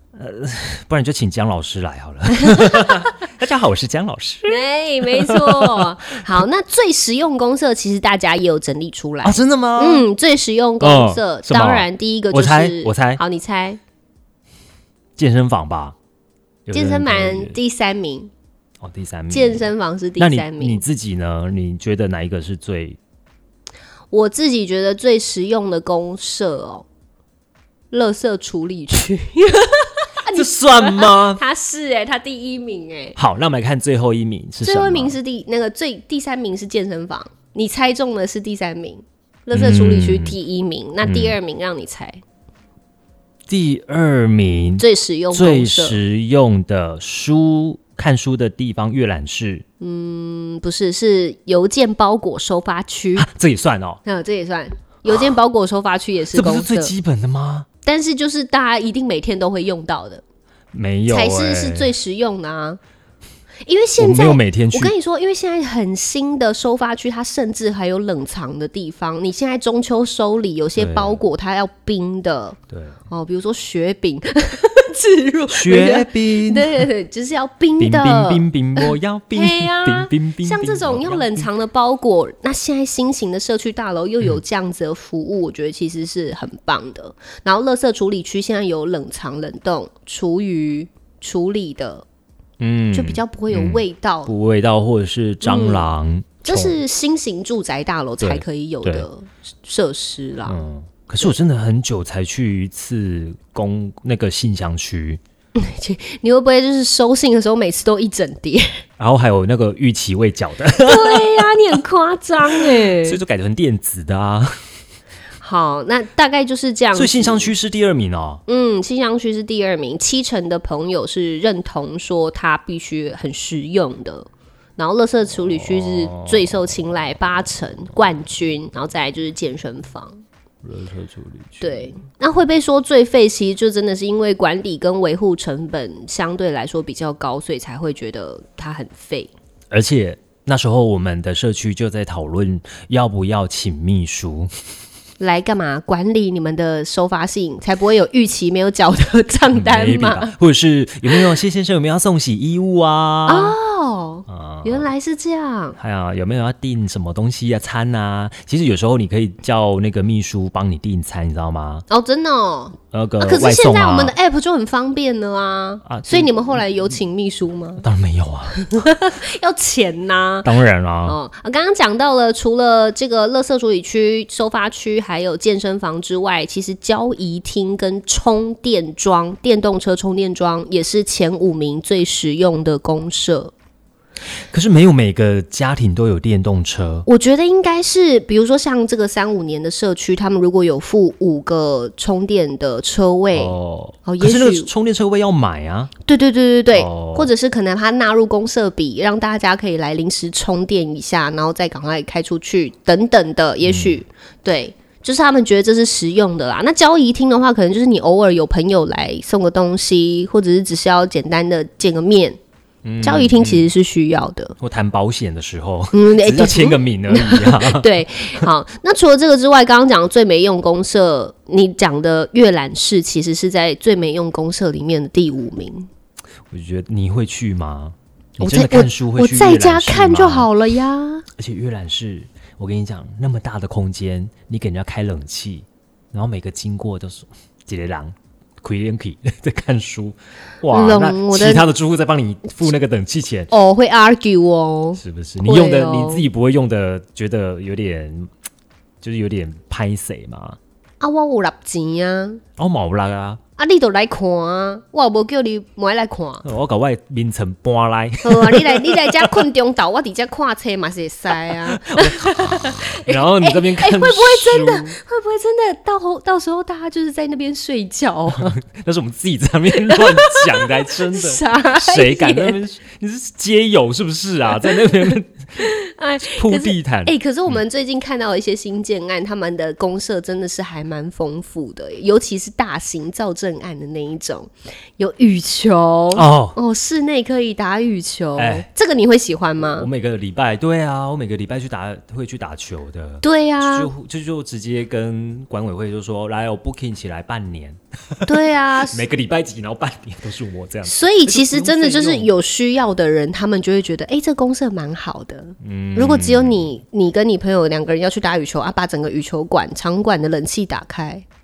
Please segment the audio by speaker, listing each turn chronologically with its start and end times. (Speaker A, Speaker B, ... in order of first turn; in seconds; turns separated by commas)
Speaker A: 0.1-6.2, Speaker B: 2.4-3.1, Speaker B: 4.5-13.8, Speaker A: 9.2-10.1, Speaker A: 10.8-13.2, Speaker A: 15.2-15.9, Speaker A: 16.6-17.6, Speaker B: 16.7-18.3, Speaker A: 18.8-19.7, Speaker B: 19.3-20.8, Speaker A: 20.2-23.0, Speaker B: 24.1-26.9, Speaker B: 27.9-33.1, Speaker A: 30.3-31.4, Speaker A: 33.2-35.1, Speaker B: 34.6-42.2, Speaker A: 39.5-40.4, Speaker A: 41.0-41.4, Speaker A: 43.5-49.6, Speaker B: 44.8-46.0, Speaker B: 49.8-53.2, Speaker A: 53.1-54.0, Speaker B: 54.0-56.9, Speaker A: 56.3-57.6, Speaker B: 57.8-60.2, Speaker A: 60.7-61.9, Speaker B: 61.1-62.8, Speaker B: 63.6-72.6, Speaker A: 64.0-64.9, Speaker A: 70.8-71.2, Speaker B: 73.1-92.0, Speaker A: 75.5-76.9, Speaker A: 77.8-81.5, Speaker A: 92.6-96.8, Speaker B: 92.9-94.3, Speaker B: 95.4-95.9, Speaker B: 96.4-100.6, Speaker A: 98.2-99.1, Speaker A: 100.5-105.2, Speaker B: 105.5-108.8, Speaker A: 109.0-111.6, Speaker B: 110.8-113.2, Speaker A: 112.5-114.5, Speaker B: 115.4-117.5, Speaker A: 116.9-118.4, Speaker B: 118.5-130.2, Speaker A: 125.6-126.4, Speaker A: 130.6-131.9, Speaker B: 131.6-139.3, Speaker A: 139.7-144.5, Speaker B: 145.2-150.3, Speaker A: 149.5-153.6, Speaker B: 153.3-155.8, Speaker A: 154.3-154.9, Speaker A: 155.8-161.8, Speaker B: 161.9-167.8, Speaker A: 162.9-164.1, Speaker A: 165.8-166.6, Speaker A: 167.8-168.6, Speaker B: 168.5-170.5, Speaker A: 170.4-171.2, Speaker B: 171.0-183.5, Speaker A: 184.5-187.1, Speaker B: 187.1-193.5, Speaker A: 193.3-195.9, Speaker B: 194.1-194.7, Speaker B: 196.1-212.4, Speaker A: 196.7-197.3, Speaker A: 203.6-204.0, Speaker A: 212.8-213.7, Speaker B: 213.0-214.5, Speaker A: 214.6-217.9, Speaker B: 215.9-225.9, Speaker A: 226.5-230.5, Speaker B: 228.4-231.2, Speaker A: 231.4-243.5, Speaker B: 240.7-241.7, Speaker B: 243.5-246.2, Speaker A: 245.0-248.3, Speaker A: 249.0-250.6, Speaker B: 251.0-252.4, Speaker A: 252.6-253.4, Speaker B: 253.6-256.4, Speaker A: 256.4-259.3, Speaker B: 258.2-268.6, Speaker A: 261.5-264.9, Speaker A: 268.4-275.4, Speaker B: 269.7-272.6, Speaker B: 274.5-289.9, Speaker A: 276.2-277.6, Speaker A: 286.1-286.6, Speaker A: 288.4-288.7, Speaker A: 289.7-302.3, Speaker B: 293.2-293.9, Speaker B: 298.2-299.0, Speaker B: 300.8-311.2, Speaker A: 305.6-306.7